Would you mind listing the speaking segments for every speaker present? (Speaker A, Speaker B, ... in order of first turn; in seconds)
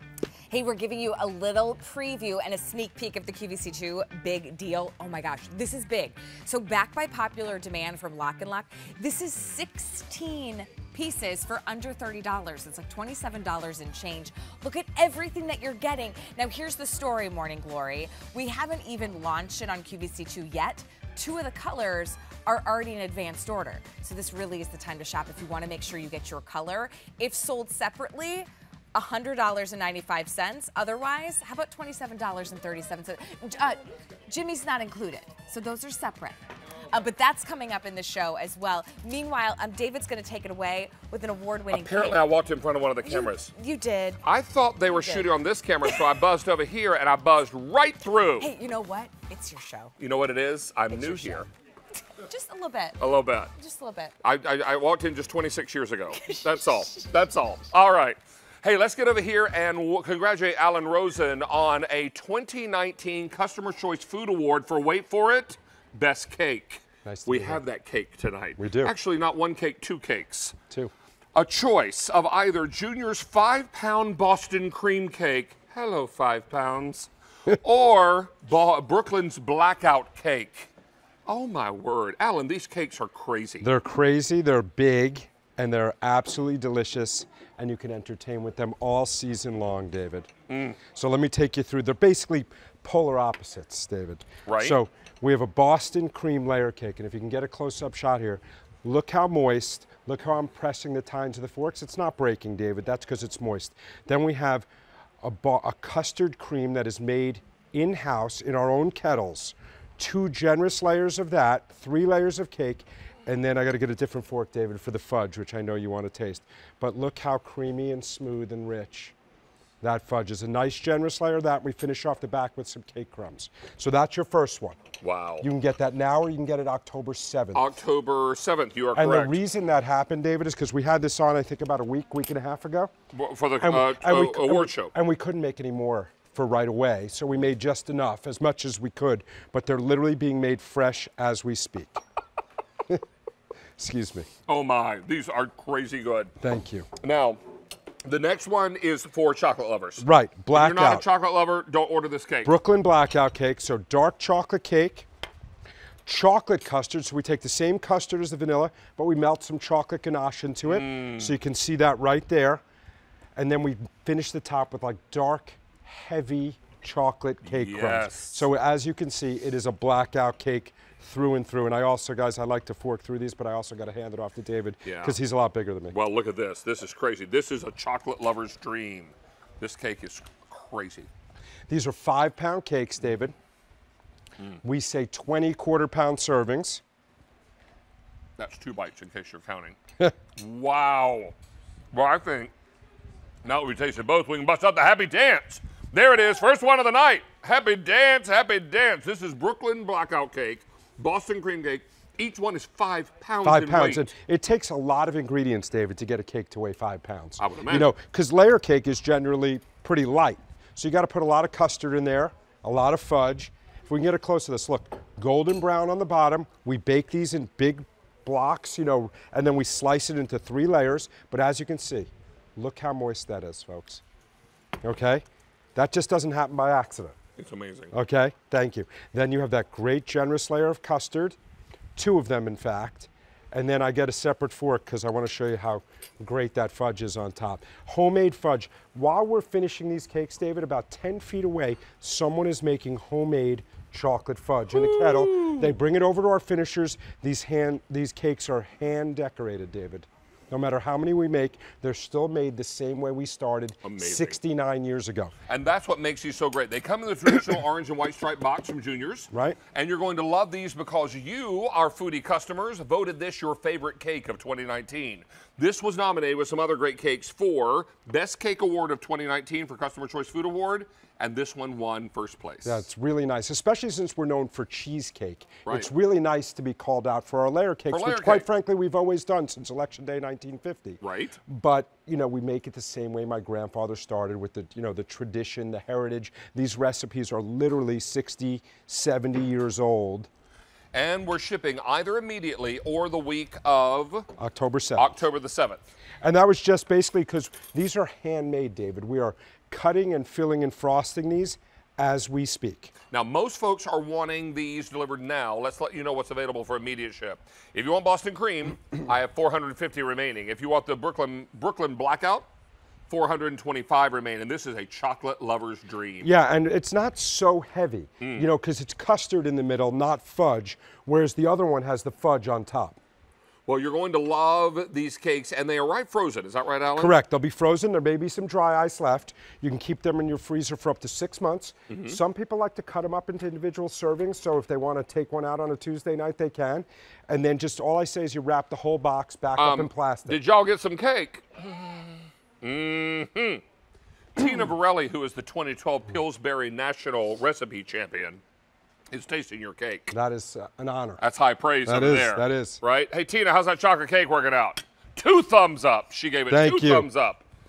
Speaker A: 0.5-42.2, 43.0-44.2, 44.9-45.3, 48.4-49.9, 50.9-51.5, 52.3-53.0, 53.6-54.1, 56.1-57.0
Speaker B: 41.7-43.5, 44.2-48.5, 50.0-51.5, 53.0-53.5, 54.2-70.6, 71.3-80.7, 81.3-83.7, 90.5-90.8, 94.5-94.8, 125.0-125.5, 127.5-129.4, 133.1-134.9, 144.5-146.3, 147.0-147.4, 148.1-152.5, 160.7-161.3, 167.4-168.4, 174.8-175.2, 175.9-181.1, 188.4-189.8, 190.4-191.3, 191.9-192.5, 193.4-204.1, 207.4-207.9, 227.4-227.9, 253.8-254.4, 255.5-272.9, 277.9-278.5, 281.0-281.4, 290.9-294.3, 295.0-295.8, 303.1-312.5, 313.1-316.3, 318.2-318.5, 323.7-327.1, 331.9-332.2, 339.6-343.6, 344.4-348.4, 349.1-350.1, 351.2-357.4
Speaker C: 67.0-67.6, 68.6-68.9, 83.6-90.3, 90.9-104.7, 105.2-119.1, 119.8-124.8, 125.4-127.7, 128.9-132.9, 133.6-142.0, 143.8-144.3, 146.4-146.9, 150.0-151.1, 152.4-155.1, 156.1-162.6, 163.4-175.9, 181.7-183.3, 184.6-186.8, 203.4-224.0, 224.8-225.2, 225.8-227.2, 227.9-231.4, 232.0-255.3, 259.3-259.6, 272.6-290.3, 294.4-295.2, 296.2-302.9, 316.2-323.0, 327.0-340.4, 350.1-351.2, 351.8-352.8, 356.5-357.1